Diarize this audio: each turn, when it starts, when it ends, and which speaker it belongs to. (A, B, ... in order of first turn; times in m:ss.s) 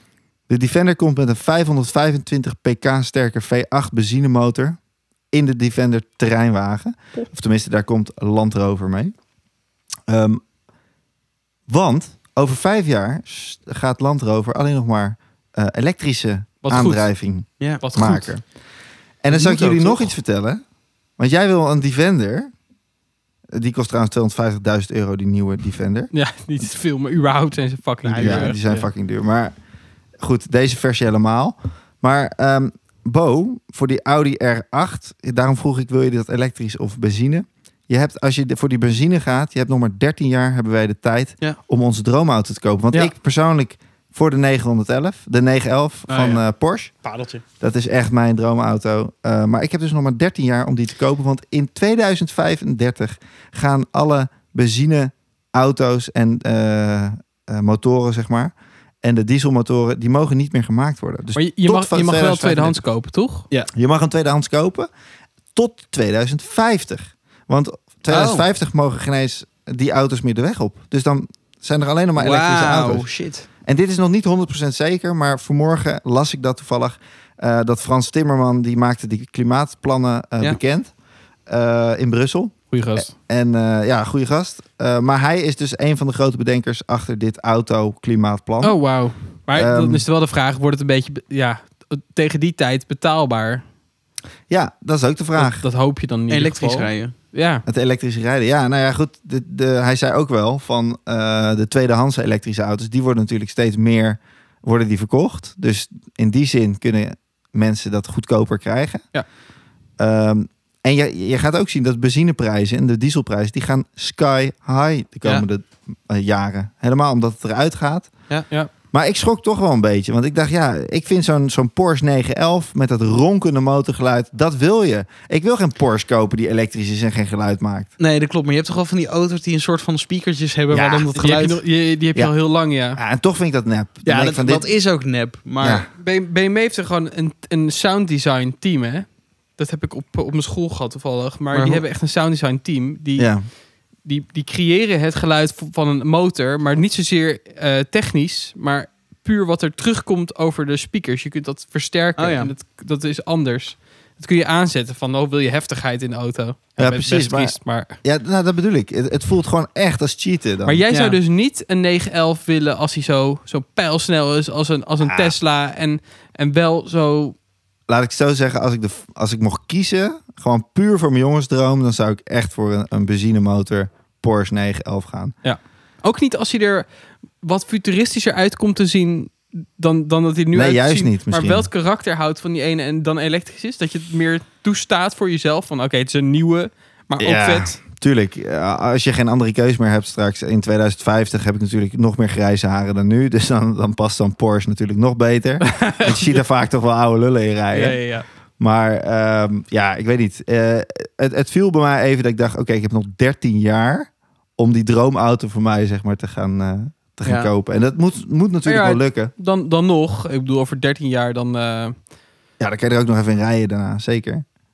0:00.5-0:04.8 A
0:05.3-0:09.2 A
0:10.1-0:10.4 A
0:11.7-0:18.4 A
0:16.6-0:18.3 B
0:19.2-0:20.6 A
0:19.3-0:20.1 C
0:21.2-0:22.5 A
0:23.5-0:26.1 A
0:26.1-0:28.9 B
0:28.0-0:28.6 C
0:28.2-0:29.6 A
0:30.2-0:46.9 A
0:46.1-0:46.4 C
0:47.0-0:47.4 C
0:47.6-1:02.8 A
1:01.4-1:03.5 B
1:03.7-1:04.9 A
1:05.6-1:13.1 A
1:08.1-1:08.5 C
1:12.2-1:13.5 C
1:13.6-1:20.9 A
1:21.5-1:28.8 A
1:22.7-1:23.1 B
1:28.6-1:33.6 B
1:29.5-1:30.0 A
1:34.5-1:35.6 A
1:35.4-1:37.6 B
1:36.3-1:37.1 C
1:37.7-1:49.0 A
1:50.0-1:58.1 A
1:58.9-2:07.9 A
2:08.0-2:11.6 C
2:10.7-2:11.1 A
2:11.2-2:13.0 B
2:13.0-2:14.7 A
2:14.0-2:15.8 C
2:15.6-2:15.9 A
2:16.0-2:23.3 B
2:21.5-2:21.8 C
2:23.2-2:23.5 A
2:24.0-2:38.0 B
2:32.2-2:32.5 C
2:36.8-2:40.8 A
2:40.6-2:47.4 B
2:40.9-2:41.2 C
2:45.0-2:45.4 A
2:47.9-2:55.3 A
2:55.4-2:56.8 B
2:57.4-3:07.8 B
3:00.5-3:01.7 A
3:07.2-3:18.0 A
3:15.6-3:16.4 B
3:17.7-3:18.2 B
3:18.6-3:29.3 A
3:27.2-3:27.5 C
3:28.7-3:32.0 B
3:32.6-3:34.4 A